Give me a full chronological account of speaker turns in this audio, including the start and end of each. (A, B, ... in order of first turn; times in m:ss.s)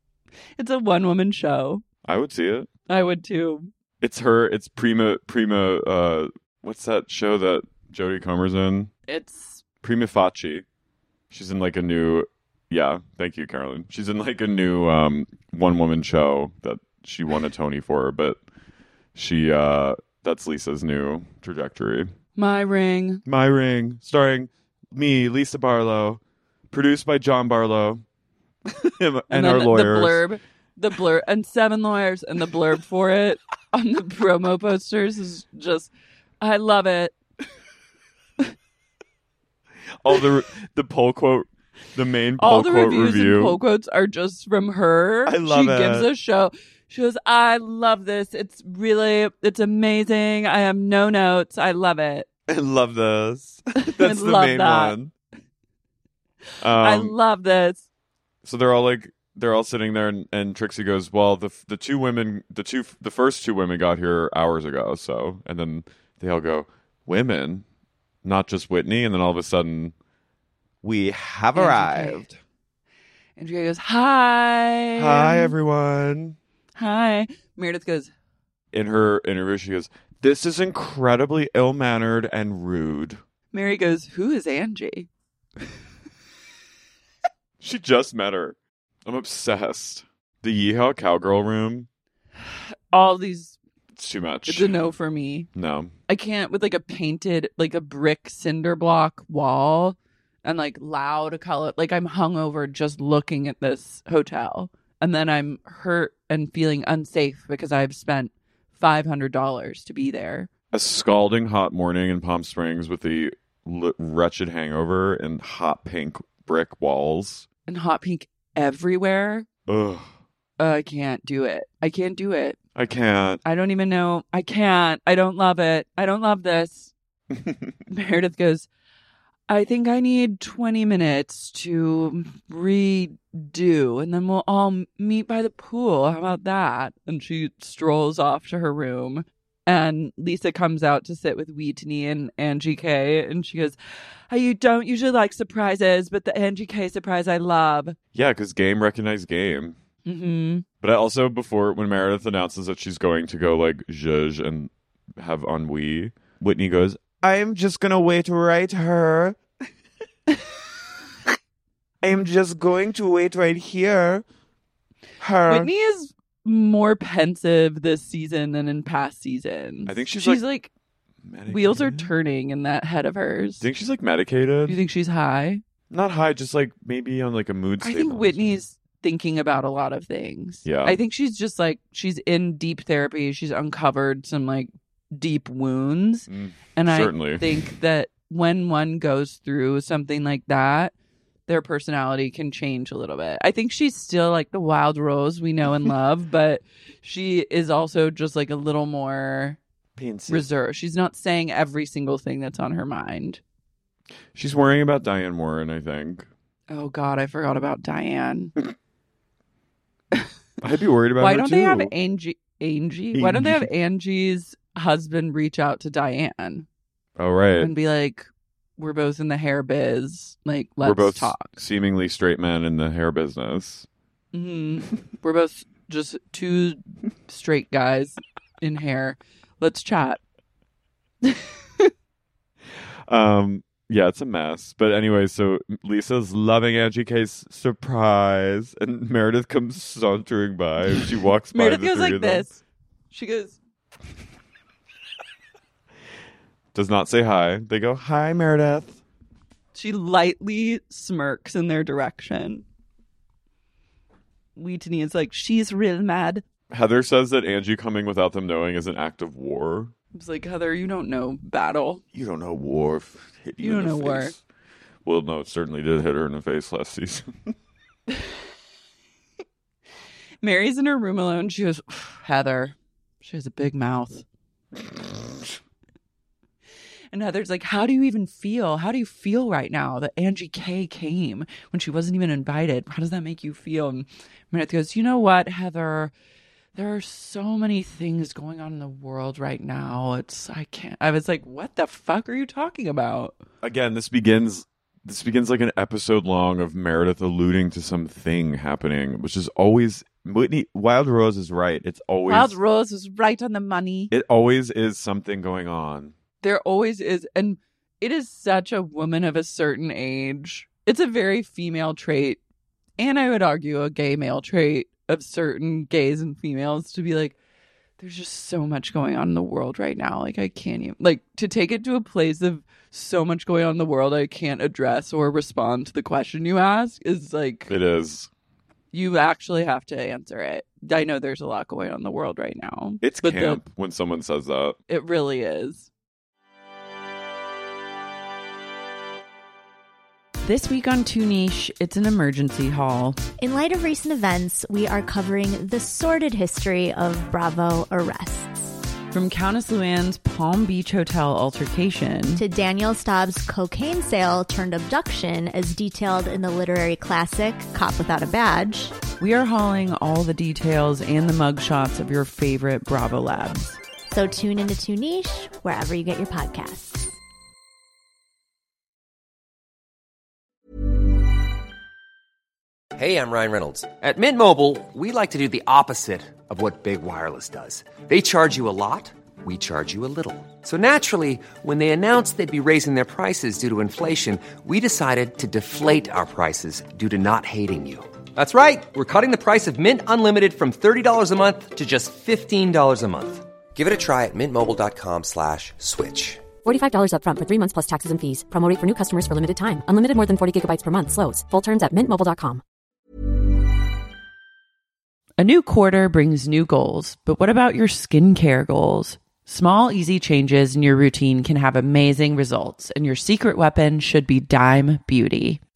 0:00.6-0:01.8 A
0:02.0-0:02.7 B
0:02.9-0:03.7 A
0:04.0-0:08.9 B
0:09.1-0:09.6 A
0:09.8-0:10.6 B
0:11.3-0:18.4 B
0:19.2-0:22.1 B
0:22.4-0:23.2 A
0:23.3-0:28.0 B
0:28.7-0:30.2 B
0:29.3-0:37.2 A
0:40.0-0:43.6 B
0:42.4-0:52.3 A
0:45.2-0:46.1 B
0:52.5-0:55.1 B
0:53.8-0:55.0 A
0:56.6-0:57.2 B
0:56.8-0:57.9 A
0:58.4-1:07.6 B
1:08.2-1:09.9 B
1:10.8-1:12.4 B
1:11.5-1:12.2 A
1:13.4-1:15.6 A
1:15.0-1:16.4 B
1:16.8-1:18.1 A
1:18.7-1:23.2 B
1:23.5-1:25.1 A
1:27.6-1:31.9 B
1:32.9-1:33.6 A
1:34.0-1:34.8 B
1:34.5-1:35.5 A
1:35.5-1:35.9 B
1:36.1-1:50.5 A
1:50.7-1:57.5 B
1:57.7-1:59.5 A
1:59.7-2:00.1 B
2:00.6-2:02.6 A
2:02.8-2:03.4 B
2:03.4-2:06.9 A
2:07.9-2:08.7 A
2:09.5-2:23.8 A
2:24.3-2:28.0 A
2:28.1-2:29.8 B
2:30.1-2:30.6 A
2:30.8-2:39.4 B
2:42.0-2:44.2 B
2:45.2-2:45.7 B
2:45.5-2:50.7 A
2:49.9-2:50.4 B
2:51.2-2:52.1 B
2:51.5-2:53.7 A
2:53.6-2:54.8 B
2:54.7-2:55.6 A
2:55.9-2:58.6 B
2:57.8-3:10.9 A
3:00.6-3:01.0 B
3:06.3-3:07.5 B
3:11.5-3:19.6 A
3:20.0-3:20.4 B
3:20.3-3:23.4 A
3:24.4-3:26.3 B
3:26.7-3:28.5 A
3:30.6-3:31.9 B
3:31.2-3:36.7 A
3:33.1-3:33.7 B
3:37.2-3:37.7 B
3:37.6-3:41.5 A
3:40.8-3:43.9 B
3:44.3-3:50.2 A
3:51.2-3:51.9 A
3:53.1-4:02.5 B
4:01.0-4:02.6 A
4:03.1-4:03.6 A
4:06.7-4:09.0 B
4:09.7-4:12.6 A
4:14.6-4:16.4 A
4:16.7-4:19.9 B
4:20.1-4:22.0 A
4:22.1-4:24.4 B
4:23.6-4:24.4 A
4:25.0-4:27.3 B
4:30.4-4:34.2 A
4:37.1-4:46.1 A
4:46.8-4:53.4 A
4:53.6-5:02.6 B
5:02.3-5:04.1 A
5:04.1-5:06.2 B
5:06.4-5:12.4 A
5:13.0-5:17.4 A
5:18.0-5:27.7 A
5:27.7-5:28.3 B
5:28.9-5:33.6 A
5:33.0-5:34.8 B
5:34.9-5:35.9 A
5:40.4-5:43.2 A
5:43.4-5:48.6 C
5:49.1-5:52.4 A
5:52.4-5:59.0 C
5:59.2-6:03.8 A
6:04.1-6:07.1 C
6:13.0-6:36.4 D
6:36.6-6:42.6 E
6:45.4-6:55.6 A